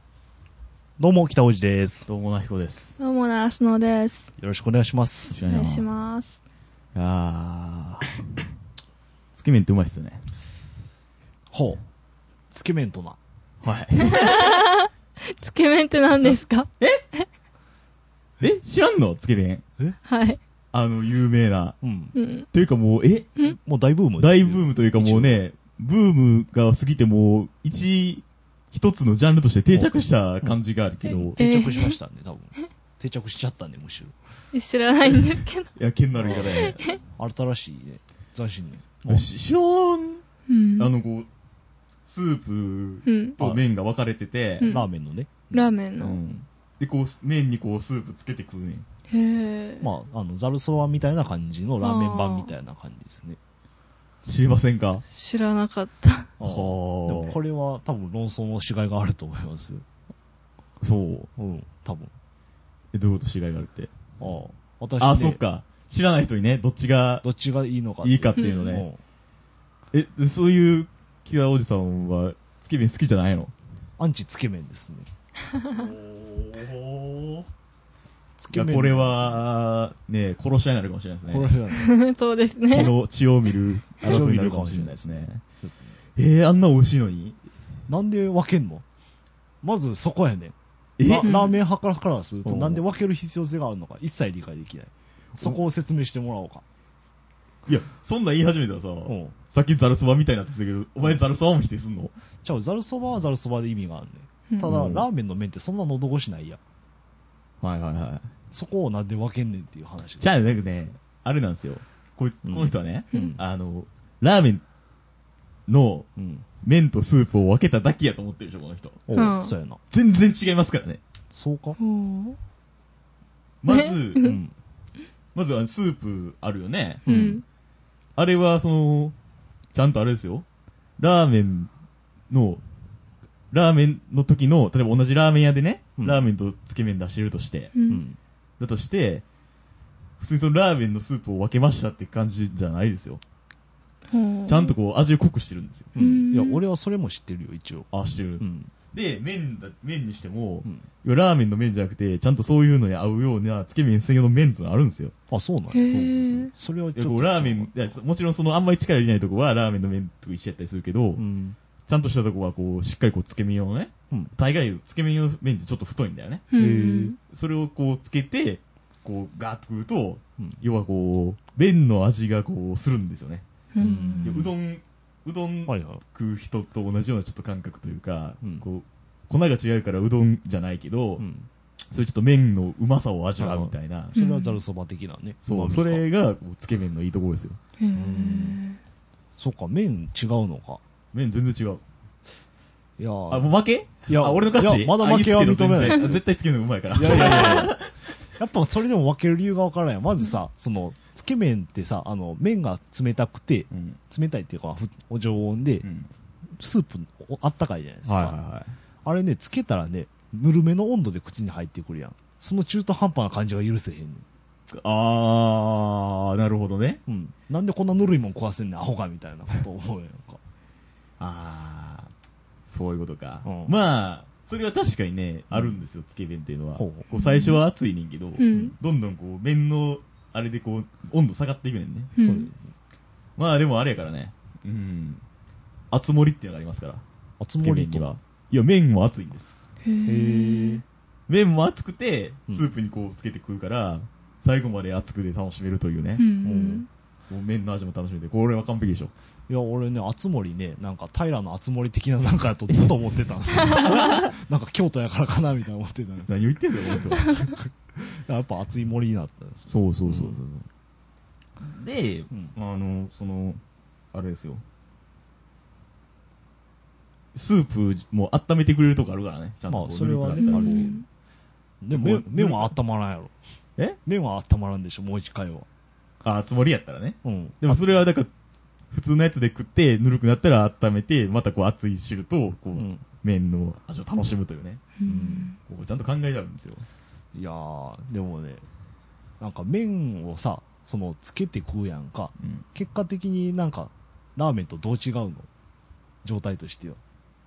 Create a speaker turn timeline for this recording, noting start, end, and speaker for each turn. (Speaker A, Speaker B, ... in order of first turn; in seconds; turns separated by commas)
Speaker A: 1.0-2.1, Speaker B: 2.1-3.0, Speaker C: 3.0-4.3, Speaker A: 4.4-5.4, Speaker B: 5.3-5.9, Speaker C: 5.4-6.4, Speaker B: 6.9-8.1, Speaker B: 9.3-10.2, Speaker A: 11.5-11.8, Speaker A: 12.5-13.2, Speaker B: 13.6-14.6, Speaker C: 14.0-17.2, Speaker B: 16.2-17.0, Speaker B: 18.4-19.6, Speaker C: 20.1-20.4, Speaker B: 20.7-21.8, Speaker A: 21.8-22.1, Speaker C: 22.1-22.5, Speaker B: 22.5-23.3, Speaker A: 23.4-25.4, Speaker B: 24.2-31.4, Speaker A: 29.7-34.1, Speaker C: 31.2-32.0, Speaker C: 34.5-35.7, Speaker B: 35.0-37.0, Speaker A: 36.2-39.3, Speaker C: 36.6-37.0, Speaker B: 39.1-40.2, Speaker C: 40.5-40.9, Speaker B: 40.8-41.3, Speaker B: 42.0-44.8, Speaker C: 43.0-43.4, Speaker C: 44.6-44.9, Speaker A: 44.7-45.8, Speaker C: 45.5-46.2, Speaker B: 46.0-48.8, Speaker C: 49.1-49.9, Speaker A: 49.8-53.4, Speaker C: 51.8-52.5, Speaker B: 54.2-55.0, Speaker C: 55.1-56.3, Speaker A: 56.4-59.8, Speaker B: 56.4-57.4, Speaker B: 60.8-61.3, Speaker A: 61.4-62.1, Speaker B: 62.9-63.9, Speaker A: 64.2-65.4, Speaker B: 65.0-67.2, Speaker A: 67.2-69.0, Speaker B: 68.0-68.9, Speaker C: 68.4-68.8, Speaker B: 69.9-73.5, Speaker A: 74.0-75.1, Speaker B: 75.6-77.5, Speaker A: 78.4-79.5, Speaker B: 78.5-81.6, Speaker A: 81.3-81.9, Speaker C: 81.7-82.9, Speaker B: 82.7-85.4, Speaker A: 84.0-85.7, Speaker B: 86.2-87.4, Speaker A: 87.9-88.8, Speaker A: 89.6-96.6, Speaker B: 91.0-91.4, Speaker C: 91.2-91.5, Speaker B: 92.4-92.8, Speaker B: 97.7-102.1, Speaker A: 99.0-99.3, Speaker A: 102.4-106.6, Speaker B: 104.6-105.1, Speaker B: 107.6-108.3, Speaker A: 108.5-111.0, Speaker B: 110.2-114.6, Speaker A: 112.4-113.4, Speaker B: 115.7-116.1, Speaker A: 116.2-116.5, Speaker B: 116.6-119.2, Speaker A: 119.1-119.8, Speaker C: 119.1-119.5, Speaker B: 119.9-121.0, Speaker A: 121.3-121.8, Speaker C: 121.8-122.4, Speaker B: 123.6-124.3, Speaker C: 123.7-124.4, Speaker A: 124.2-124.5, Speaker B: 125.3-127.3, Speaker C: 127.0-127.4, Speaker A: 127.0-127.4, Speaker B: 128.2-129.2, Speaker B: 129.7-130.4, Speaker B: 131.0-131.7, Speaker B: 132.3-132.6, Speaker B: 133.5-137.7, Speaker A: 136.0-136.2, Speaker C: 137.7-138.0, Speaker A: 137.9-138.2, Speaker B: 138.6-139.2, Speaker B: 140.2-143.2, Speaker C: 144.1-144.7, Speaker B: 144.5-145.9, Speaker A: 145.9-148.7, Speaker C: 145.9-146.6, Speaker B: 147.9-155.1, Speaker A: 155.3-157.7, Speaker C: 155.7-156.5, Speaker B: 156.9-161.2, Speaker A: 161.2-161.6, Speaker B: 161.9-166.4, Speaker C: 166.5-167.2, Speaker A: 166.6-167.1, Speaker B: 167.3-173.4, Speaker C: 173.7-174.4, Speaker A: 173.8-174.5, Speaker B: 174.2-181.2, Speaker A: 175.7-176.0, Speaker A: 181.2-181.5, Speaker B: 181.9-184.2, Speaker A: 183.4-186.1, Speaker C: 184.1-184.6, Speaker B: 185.4-187.6, Speaker C: 187.8-188.8, Speaker A: 187.9-188.6, Speaker A: 189.4-190.8, Speaker B: 191.1-191.8, Speaker A: 193.0-193.5, Speaker B: 193.3-198.1, Speaker A: 194.1-196.2, Speaker A: 196.9-197.8, Speaker A: 198.3-205.8, Speaker B: 203.7-204.0, Speaker B: 205.8-206.1, Speaker A: 206.6-208.4, Speaker B: 208.0-208.8, Speaker A: 209.0-214.2, Speaker B: 214.7-217.0, Speaker A: 217.1-220.4, Speaker B: 221.2-222.1, Speaker B: 222.7-232.1, Speaker A: 223.4-223.7, Speaker A: 226.8-227.1, Speaker C: 227.1-227.6, Speaker C: 228.4-228.7, Speaker C: 232.2-232.5, Speaker A: 232.2-232.7, Speaker B: 233.4-235.2, Speaker B: 235.9-237.0, Speaker A: 237.4-238.2, Speaker B: 237.6-239.5, Speaker C: 239.8-240.8, Speaker A: 240.0-240.8, Speaker B: 241.3-246.3, Speaker C: 246.2-246.9, Speaker A: 246.4-246.8, Speaker B: 247.3-249.1, Speaker A: 249.5-256.3, Speaker B: 253.5-254.3, Speaker B: 256.2-257.4, Speaker A: 256.9-260.6, Speaker B: 259.7-260.4, Speaker B: 261.6-263.6, Speaker B: 264.1-264.6, Speaker B: 267.3-271.0, Speaker A: 269.7-270.9, Speaker C: 270.3-271.0, Speaker A: 271.8-273.5, Speaker B: 271.9-272.8, Speaker A: 274.0-275.7, Speaker B: 276.2-278.3, Speaker A: 277.2-278.1, Speaker B: 278.9-284.9, Speaker A: 282.7-283.0, Speaker C: 285.0-285.6, Speaker A: 285.0-285.5, Speaker B: 285.6-286.9, Speaker A: 287.3-288.6, Speaker A: 289.4-295.5, Speaker B: 292.4-292.6, Speaker A: 296.2-297.0